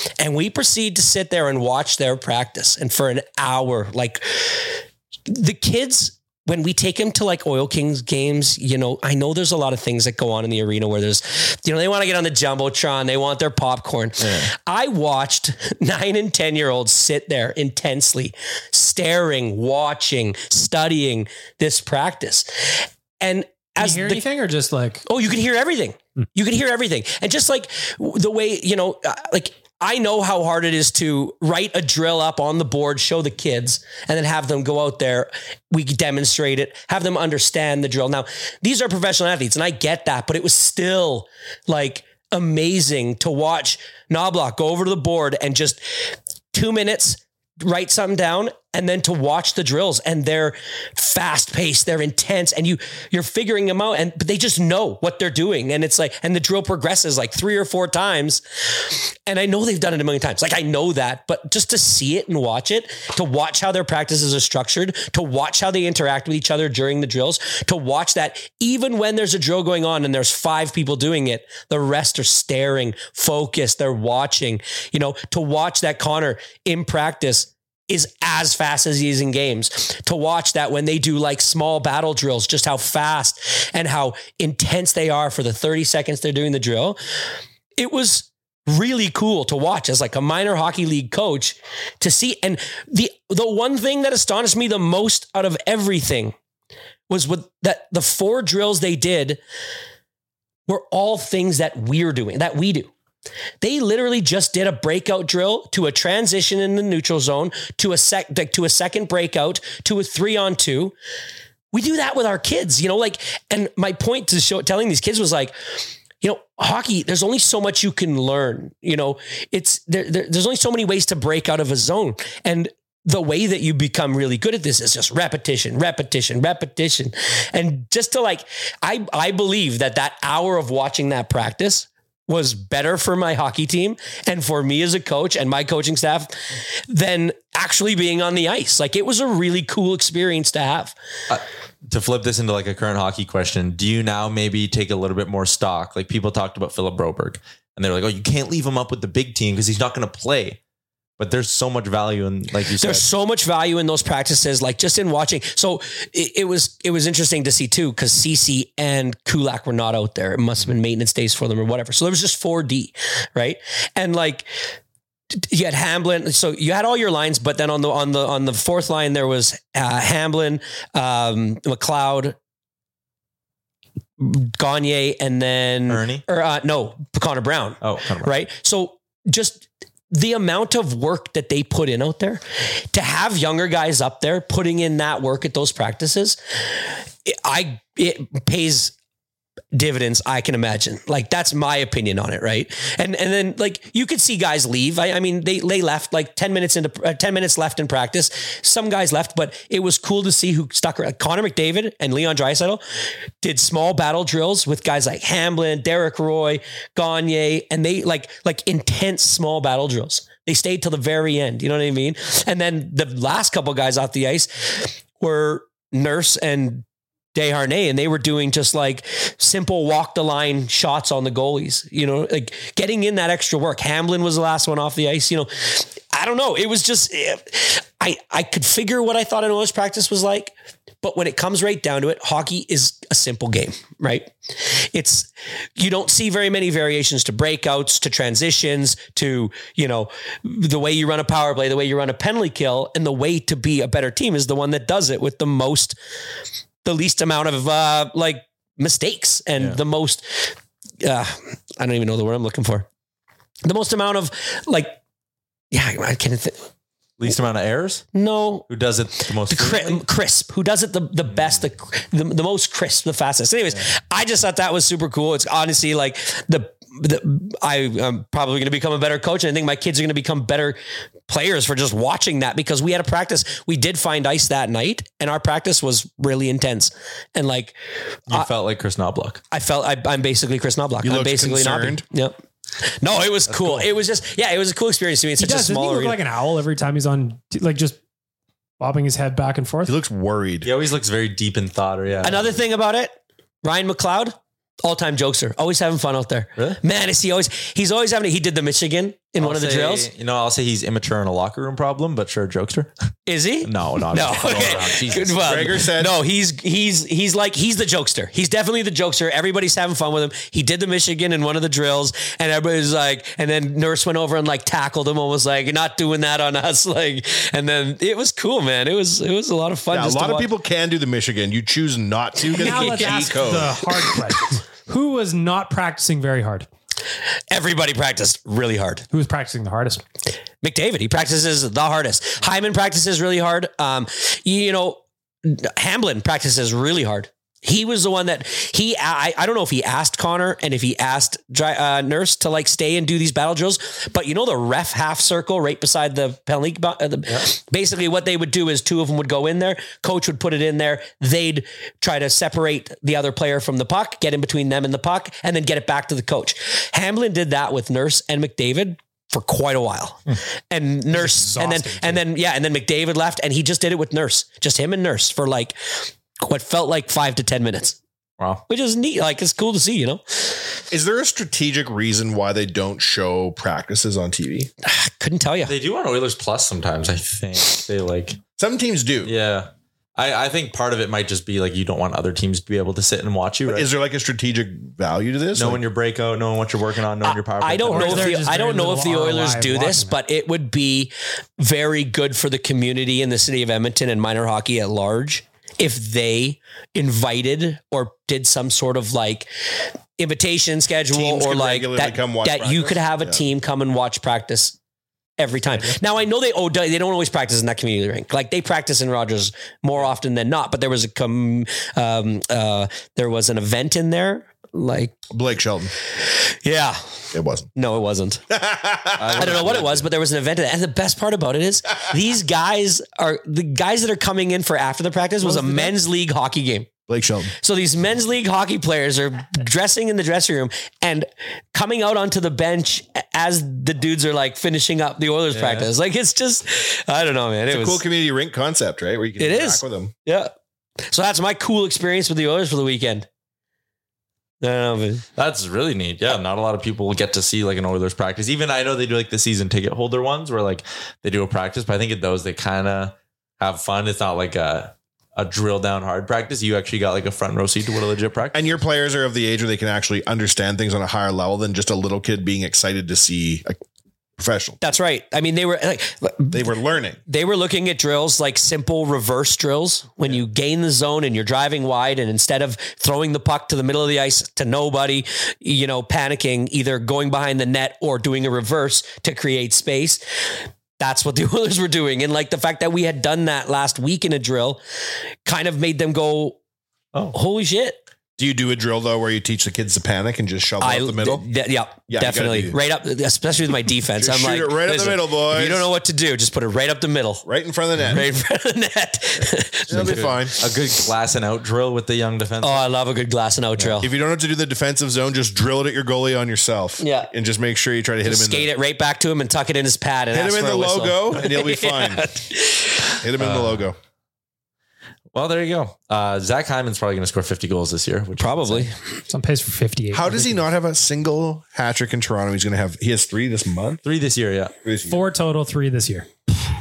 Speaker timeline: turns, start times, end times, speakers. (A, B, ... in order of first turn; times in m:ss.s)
0:00.2-0:24.2 A
0:23.8-0:25.0 B
0:25.1-0:45.8 A
0:46.5-0:58.4 A
0:59.3-1:27.0 A
1:27.8-1:36.4 A
1:37.1-1:39.4 A
1:40.7-1:42.9 A
1:43.6-1:50.9 A
1:51.7-1:55.5 A
1:56.2-2:21.0 A
2:21.3-2:30.6 C
2:31.2-2:33.1 C
2:32.8-2:44.5 A
2:45.3-2:52.4 A
2:54.2-3:06.4 A
2:55.9-2:56.2 C
2:57.8-2:58.4 C
3:07.3-3:08.9 A
3:09.7-3:22.8 A
3:23.4-3:36.8 A
3:37.4-4:06.0 A
4:06.8-4:12.9 A
4:13.6-4:15.0 A
4:15.7-4:16.7 A
4:17.2-4:18.1 C
4:18.2-4:18.7 A
4:18.7-4:20.0 C
4:19.4-4:37.8 A
4:38.3-4:39.4 C
4:39.5-4:42.4 A
4:41.0-4:42.0 D
4:43.0-4:46.2 A
4:43.5-4:43.9 C
4:45.4-4:48.0 B
4:48.8-4:50.0 B
4:49.9-4:50.7 D
4:50.6-4:52.6 C
4:52.2-5:00.1 A
4:59.4-5:02.9 C
5:03.3-5:20.5 A
5:03.6-5:05.7 C
5:04.5-5:06.2 D
5:19.9-5:23.8 D
5:22.5-5:26.7 B
5:22.5-5:23.5 A
5:27.5-5:29.0 A
5:29.1-5:30.0 B
5:30.6-6:05.8 A
6:01.1-6:02.2 B
6:06.4-6:08.0 A
6:08.7-6:10.6 A
6:10.9-6:14.7 D
6:14.8-6:15.7 A
6:15.7-6:18.4 C
6:18.6-6:19.3 D
6:19.2-6:23.9 C
6:23.7-6:25.8 D
6:25.6-6:28.4 C
6:27.2-6:39.5 A
6:27.9-6:30.2 B
6:40.2-6:44.8 A
6:41.1-6:43.4 D
6:45.4-6:55.2 A
6:55.3-6:55.9 D
6:56.6-6:57.0 A
6:57.3-6:57.7 D
6:57.8-6:58.4 A
6:58.5-6:59.7 D
6:59.2-7:00.1 C
6:59.4-7:06.9 A
7:05.4-7:06.0 B
7:07.1-7:07.5 D
7:07.6-7:18.0 A
7:15.5-7:15.9 C
7:17.7-7:20.1 D
7:19.4-7:20.5 A
7:21.1-7:23.3 A
7:24.6-7:25.2 A
7:25.4-7:38.8 C
7:38.5-7:43.8 D
7:44.4-7:44.8 D
7:44.8-7:46.6 A
7:46.5-7:47.2 D
7:47.3-8:00.2 A
8:01.0-8:04.8 A
8:05.4-8:06.6 A
8:07.3-8:08.0 A
8:08.4-8:11.4 D
8:10.8-8:17.4 A
8:12.1-8:12.8 D
8:14.2-8:15.9 D
8:17.5-8:18.3 D
8:18.1-8:20.3 A
8:19.9-8:20.6 D
8:19.9-8:22.9 C
8:22.6-8:24.1 A
8:24.0-8:28.7 D
8:27.0-8:27.3 A
8:28.2-8:33.2 A
8:30.3-8:32.2 D
8:33.2-8:34.0 D
8:33.4-8:33.9 C
8:35.3-8:38.9 C
8:38.4-8:38.9 A
8:39.3-8:40.7 B
8:40.1-8:44.0 D
8:44.0-8:44.8 C
8:44.8-8:45.2 D
8:45.1-8:46.3 B